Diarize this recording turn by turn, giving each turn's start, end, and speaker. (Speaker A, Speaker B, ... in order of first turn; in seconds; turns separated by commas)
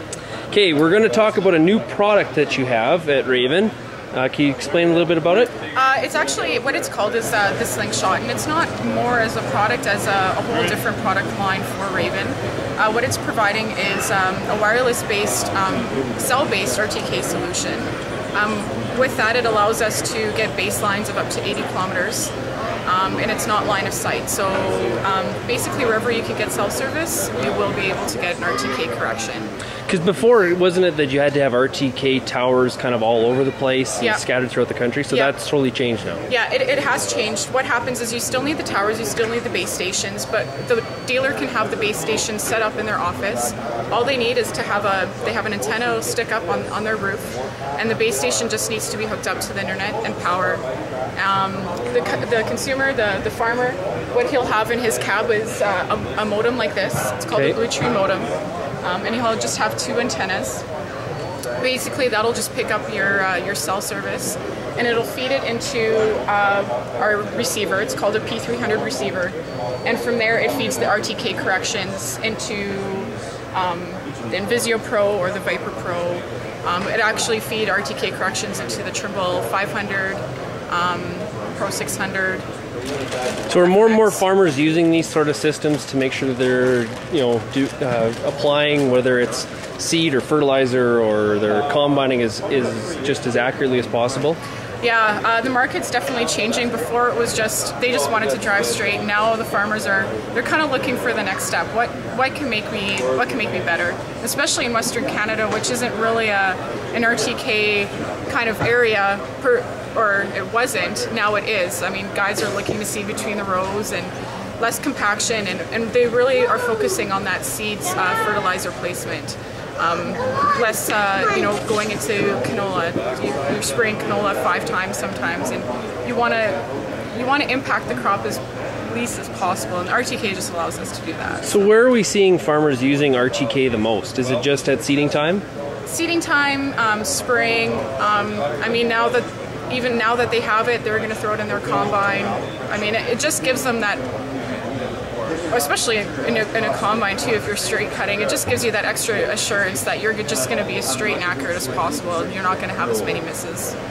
Speaker A: 0.5-5.5, Speaker B: 5.7-22.3, Speaker B: 22.9-29.5, Speaker A: 29.9-36.2, Speaker B: 35.1-35.3, Speaker B: 36.3-50.6, Speaker B: 51.2-58.3, Speaker B: 58.8-60.6, Speaker B: 61.6-82.4, Speaker A: 83.5-94.4, Speaker B: 83.6-84.2, Speaker B: 94.8-131.6, Speaker A: 131.4-135.4, Speaker B: 135.8-144.0, Speaker B: 145.5-153.8